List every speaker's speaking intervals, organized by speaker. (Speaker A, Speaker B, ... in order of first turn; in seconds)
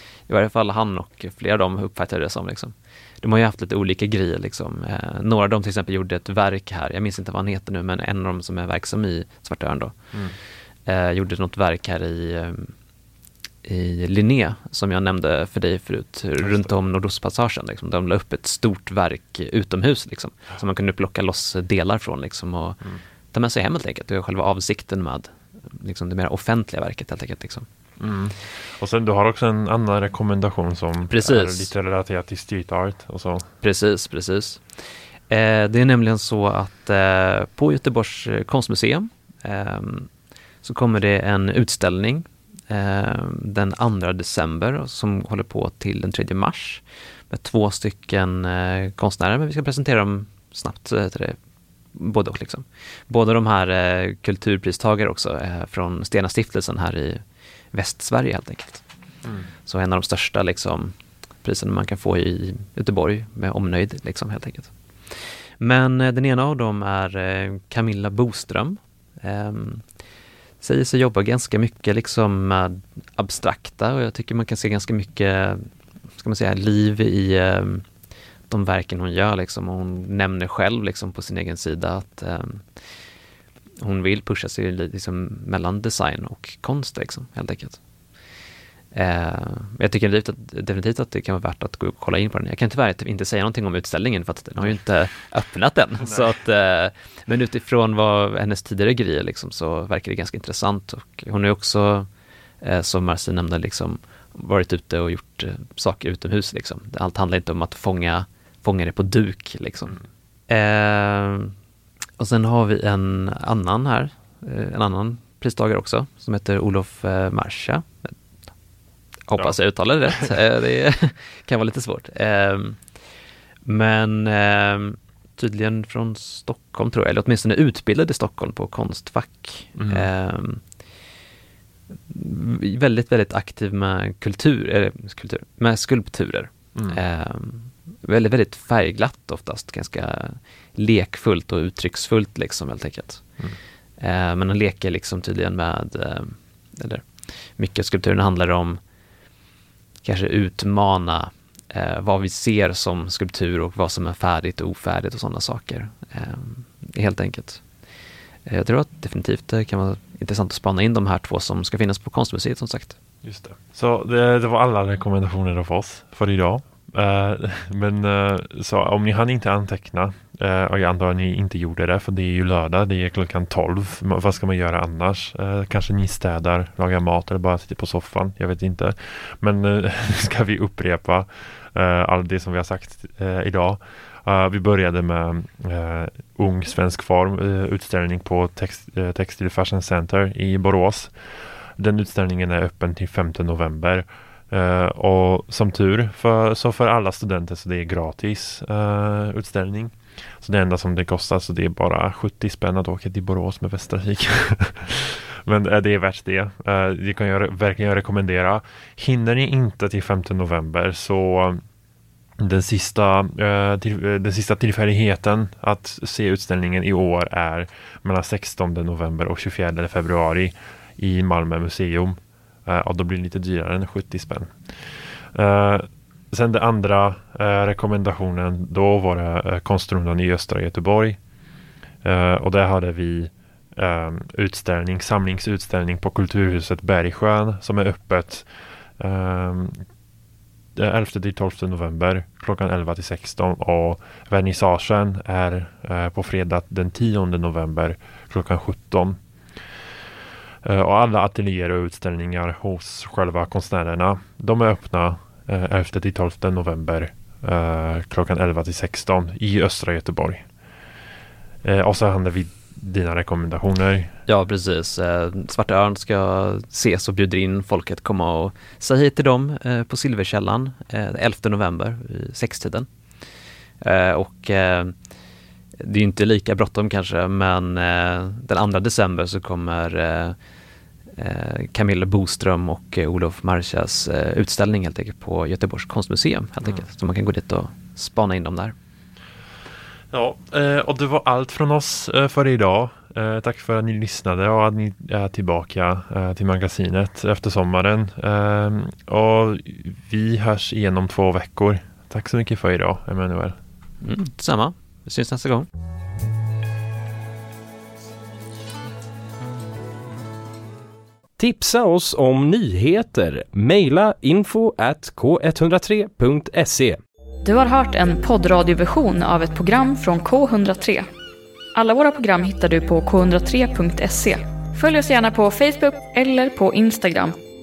Speaker A: 0.3-10.0, 10.8-12.7, 13.6-22.8, 23.3-27.7, 31.1-31.7, 33.6-34.6, 35.3-40.1, 40.6-51.4, 51.9-58.8, 59.6-69.8, 70.6-75.7, 76.2-77.8, 78.5-82.6, 83.8-87.8, 88.9-102.1, 102.6-110.0, 110.5-111.5, 112.2-118.1, 119.3-122.8, 123.7-130.6, 132.1-143.2, 144.0-148.8, 150.0-157.6, 158.4-162.9, 264.3-272.9, 273.8-274.9, 275.8-280.4, 281.2-288.7, 304.0-305.7
Speaker B: 16.4-16.7, 28.0-33.5, 129.8-130.1, 163.2-191.1, 191.8-211.6, 212.4-231.2, 232.0-238.5, 239.0-239.8, 240.7-249.2, 250.6-260.4, 261.6-264.1, 290.1-303.6
Speaker C: 311.4-317.0
Speaker D: 317.4-321.1, 321.7-327.4